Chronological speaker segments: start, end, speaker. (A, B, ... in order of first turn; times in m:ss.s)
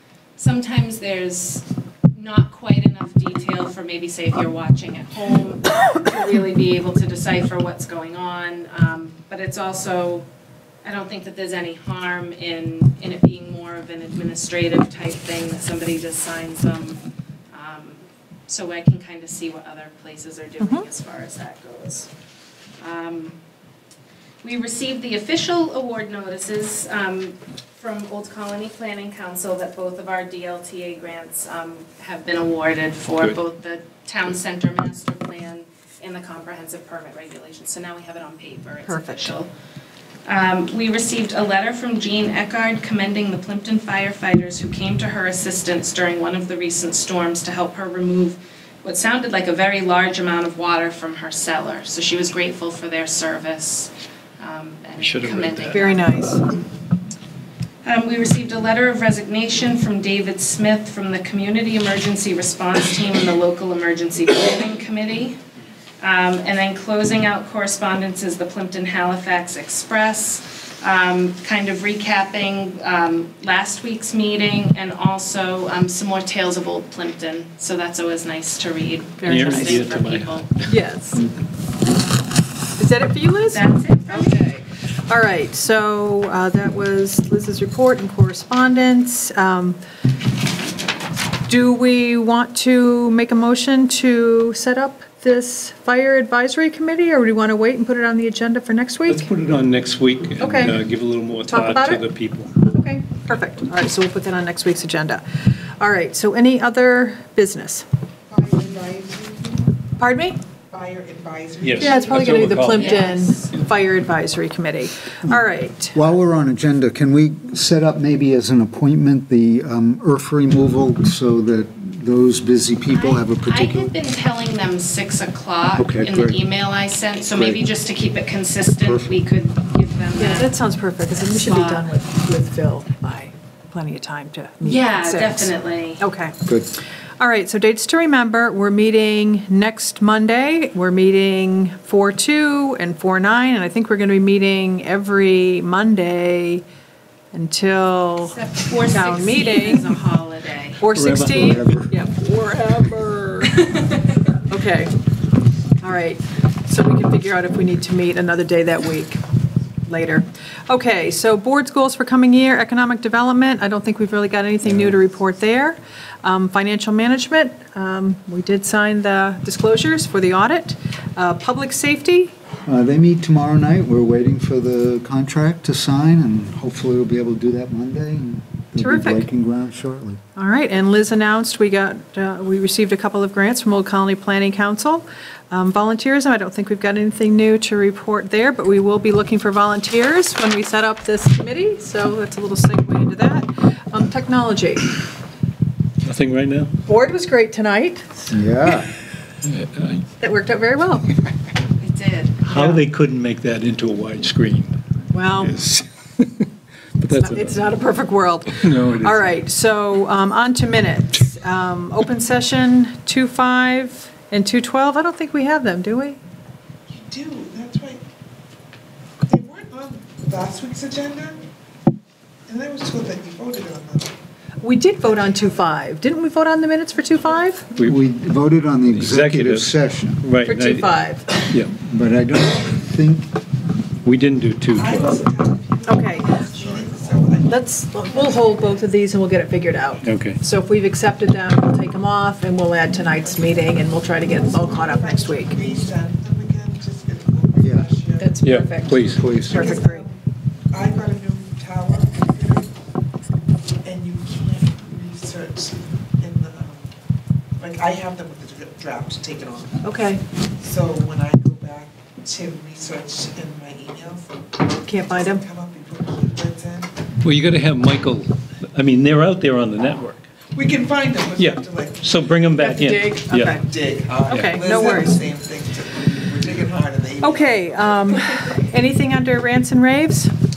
0:00.4-0:10.3 A
0:10.8-0:17.0 A
0:17.5-0:22.1 A
0:20.6-0:20.9 B
0:22.8-0:23.4 A
0:24.4-0:39.5 A
0:38.8-0:39.4 B
0:40.3-0:56.3 A
0:55.0-0:55.8 C
0:55.7-0:56.4 B
0:57.8-1:05.4 A
1:06.0-1:20.5 A
1:19.2-1:19.8 B
1:19.2-1:20.6 C
1:20.7-1:21.3 B
1:22.8-1:29.8 B
1:23.5-1:24.6 A
1:31.5-1:39.3 B
1:39.1-1:42.5 C
1:40.4-1:40.8 B
1:41.5-1:45.2 B
1:45.8-1:47.8 B
1:48.3-1:49.8 D
1:50.0-1:50.4 B
1:50.7-1:52.9 D
1:51.6-1:53.6 C
1:51.8-1:56.1 B
1:52.8-1:53.3 A
1:55.2-2:03.9 E
2:02.9-2:10.6 A
2:05.8-2:06.4 E
2:07.4-2:07.6 E
2:08.8-2:09.1 E
2:10.1-2:16.4 B
2:11.2-2:11.9 A
2:14.6-2:16.0 A
2:16.4-2:16.8 E
2:17.2-2:26.6 B
2:27.3-2:29.9 B
2:28.2-2:30.8 A
2:30.8-2:33.7 B
2:30.9-2:31.6 C
2:31.4-2:31.9 E
2:33.6-2:34.1 A
2:34.5-2:34.9 B
2:35.8-2:39.2 B
2:39.8-2:52.3 B
2:52.6-3:00.2 E
2:58.8-2:59.2 B
3:00.4-3:15.0 B
3:16.0-3:16.7 C
3:16.9-3:18.3 B
3:18.3-3:18.9 E
3:19.4-3:20.0 C
3:20.2-3:21.1 B
3:21.8-3:22.6 A
3:22.4-3:24.8 C
3:22.6-3:22.8 B
3:25.1-3:25.6 B
3:25.4-3:26.4 C
3:27.0-3:27.6 C
3:27.1-3:36.2 B
3:28.6-3:29.3 C
3:36.9-3:38.0 D
3:39.2-3:41.4 D
3:42.5-3:44.2 D
3:44.6-3:47.7 B
3:45.0-3:45.6 D
3:47.8-3:50.2 E
3:48.9-3:50.9 C
3:50.4-3:51.4 B
3:51.8-3:53.3 E
3:54.0-3:55.1 C
3:54.8-3:58.7 D
3:55.8-3:56.9 B
3:57.4-4:05.6 B
4:00.0-4:00.4 C
4:03.2-4:08.3 D
4:07.6-4:07.9 E
4:08.2-4:10.1 B
4:08.4-4:09.5 C
4:08.9-4:09.8 E
4:09.4-4:10.1 D
4:10.7-4:12.7 D
4:13.8-4:16.9 D
4:17.6-4:19.9 D
4:19.8-4:20.2 B
4:20.5-4:26.9 D
4:24.7-4:25.4 B
4:27.2-4:30.2 C
4:30.5-4:32.3 D
4:31.4-4:33.6 C
4:32.6-4:33.6 B
4:33.6-4:38.7 D
4:34.2-4:35.2 B
4:34.3-4:34.6 C
4:37.2-4:40.3 B